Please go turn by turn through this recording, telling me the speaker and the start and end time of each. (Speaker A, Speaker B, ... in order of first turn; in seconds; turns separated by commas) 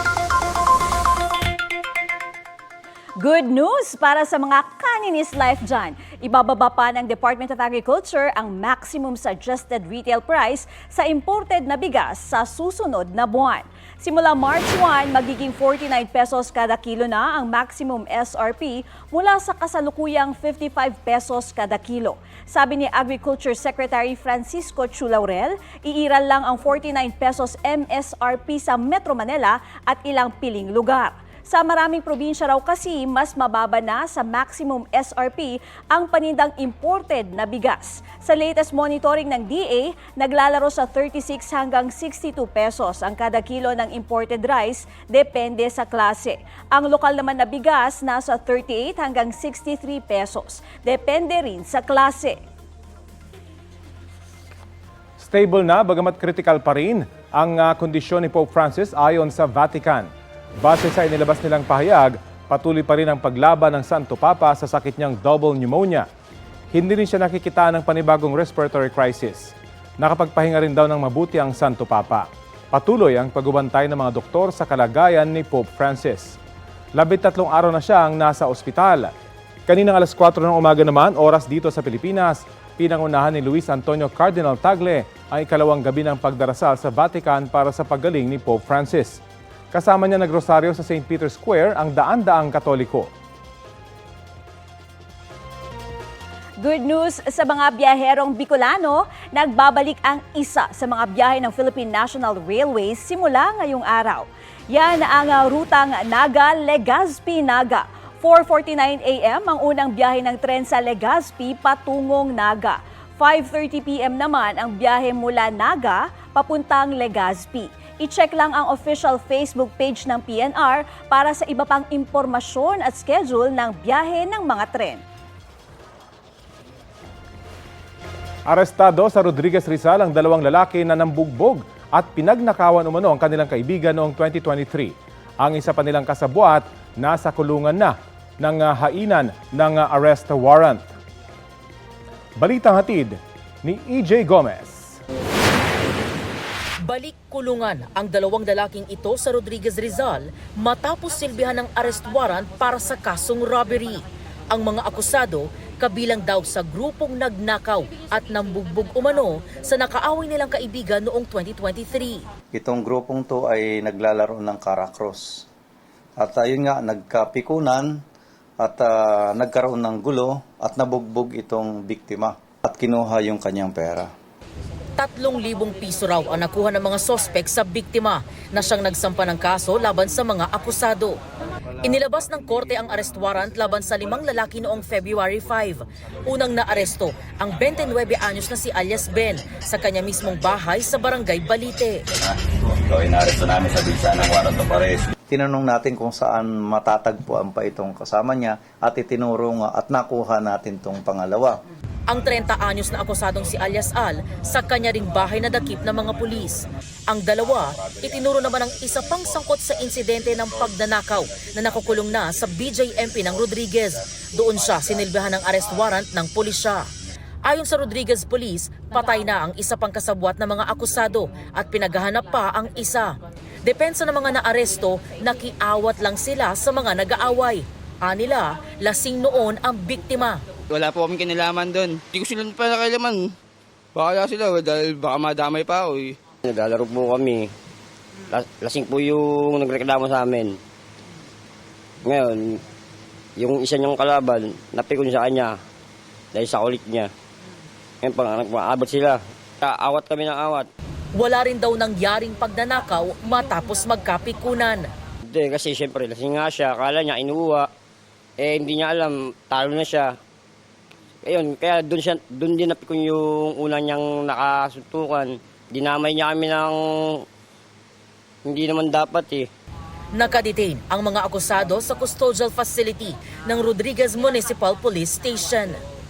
Speaker A: 3.2-52.4, Speaker B: 55.2-60.1, Speaker B: 60.6-66.1, Speaker B: 66.7-76.4, Speaker B: 76.9-79.1, Speaker B: 79.7-89.2, Speaker B: 89.7-93.1, Speaker A: 96.6-125.0, Speaker B: 128.5-140.8, Speaker B: 142.4-145.0, Speaker C: 146.8-162.2, Speaker D: 162.5-165.4, Speaker D: 166.2-167.9, Speaker D: 168.6-174.1, Speaker C: 175.0-181.2, Speaker C: 181.8-192.0, Speaker D: 192.2-201.6, Speaker C: 202.1-216.9, Speaker C: 217.4-230.4, Speaker E: 230.7-233.3, Speaker E: 233.9-236.2, Speaker F: 236.4-237.5, Speaker F: 238.3-240.6, Speaker F: 242.0-242.6, Speaker F: 243.4-245.6, Speaker F: 246.3-247.1, Speaker F: 248.0-250.7, Speaker C: 251.1-254.9, Speaker F: 255.3-257.7, Speaker F: 258.4-260.1, Speaker F: 261.2-267.2, Speaker F: 268.4-269.5, Speaker C: 270.1-275.8